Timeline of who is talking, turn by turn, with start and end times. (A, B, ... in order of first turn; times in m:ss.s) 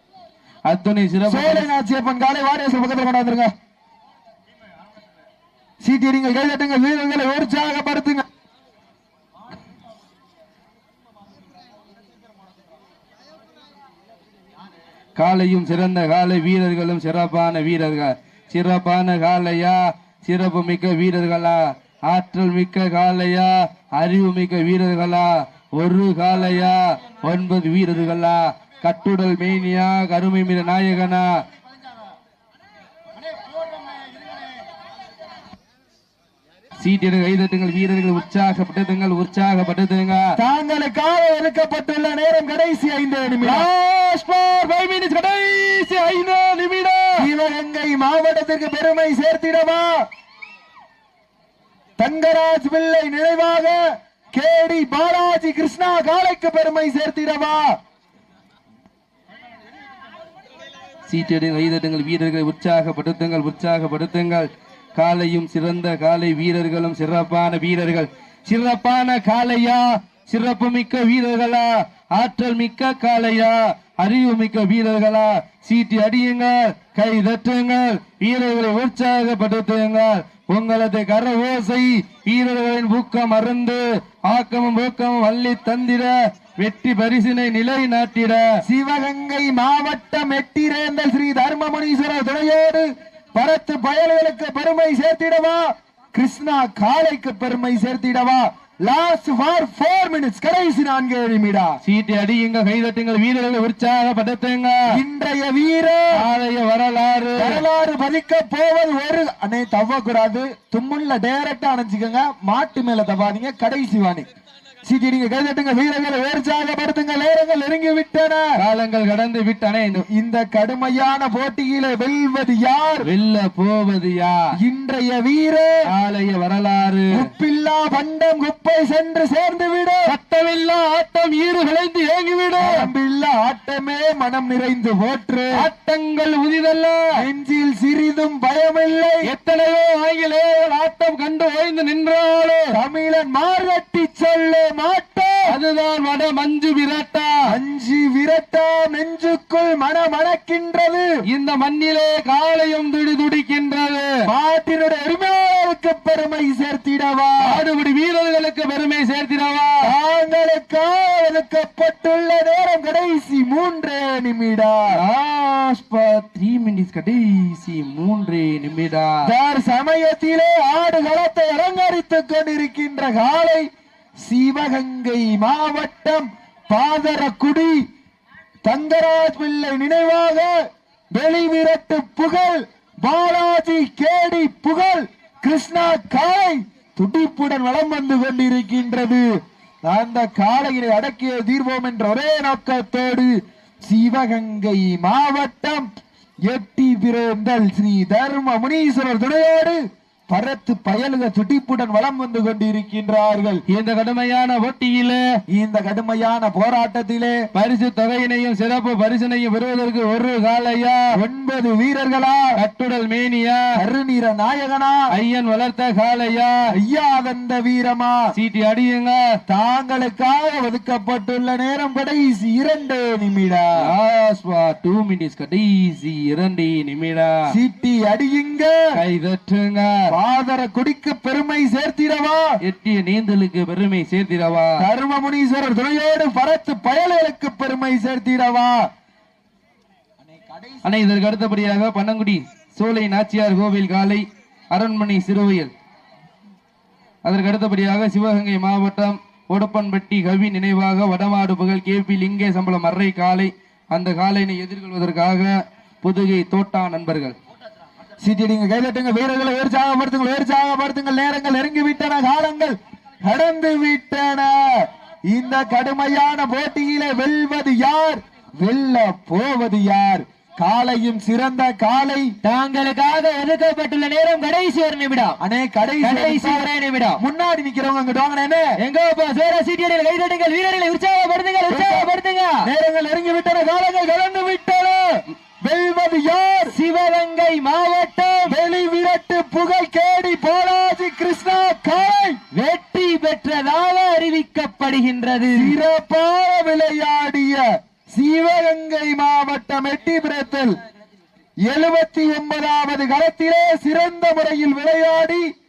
0:00.7-0:01.7 A
0:01.3-0:03.5 B
0:05.8-0:08.2 B
0:15.2-0:31.3 A
0:36.8-0:40.3 A
0:40.4-0:43.7 B
0:43.4-0:47.3 A
0:47.2-0:49.9 B
0:52.0-0:53.8 B
0:54.3-0:57.8 B
1:01.1-1:28.4 A
1:28.6-1:41.8 B
1:41.8-1:44.8 A
1:44.9-1:46.1 B
1:46.1-1:47.6 A
1:47.4-1:54.3 B
1:54.8-1:58.5 B
1:58.6-2:00.0 A
1:59.9-2:03.1 B
2:03.0-2:04.4 A
2:04.6-2:05.7 B
2:05.9-2:07.2 A
2:07.1-2:10.2 B
2:10.1-2:12.9 A
2:12.6-2:15.6 B
2:15.6-2:17.2 A
2:17.2-2:19.3 B
2:19.2-2:22.8 A
2:22.7-2:25.5 B
2:25.5-2:27.6 A
2:27.5-2:31.1 B
2:31.3-2:34.1 A
2:34.3-2:37.6 B
2:37.4-2:39.9 A
2:39.8-2:44.9 B
2:44.9-2:49.1 A
2:49.2-2:53.7 B
2:54.2-2:57.8 B
2:58.6-3:00.5 B
3:01.1-3:09.2 B
3:09.8-3:13.3 B
3:13.8-3:15.8 B
3:16.5-3:19.8 B
3:20.3-3:23.6 B
3:23.7-3:25.2 A
3:25.5-3:27.4 B
3:27.5-3:31.0 A
3:31.1-3:32.5 B
3:32.6-3:33.6 A
3:33.8-3:35.0 B
3:35.1-3:36.6 A
3:36.7-3:38.2 B
3:38.3-3:39.2 A
3:39.5-3:43.7 B
3:43.8-3:47.3 A
3:47.5-3:48.7 B
3:49.0-3:49.9 A
3:50.1-3:52.5 B
3:52.6-3:54.8 A
3:54.8-3:58.8 B
4:00.8-4:05.7 A
4:07.2-4:17.4 A
4:18.2-4:32.3 B
4:32.4-4:35.4 C
4:35.4-4:36.7 B
4:36.0-4:37.2 C
4:37.2-4:38.7 B
4:38.8-4:42.7 C
4:41.7-4:42.1 B
4:42.6-4:46.8 B
4:46.7-4:48.6 C
4:48.5-4:52.4 B
4:52.5-4:55.8 C
4:55.5-5:00.7 B
5:01.7-5:05.4 B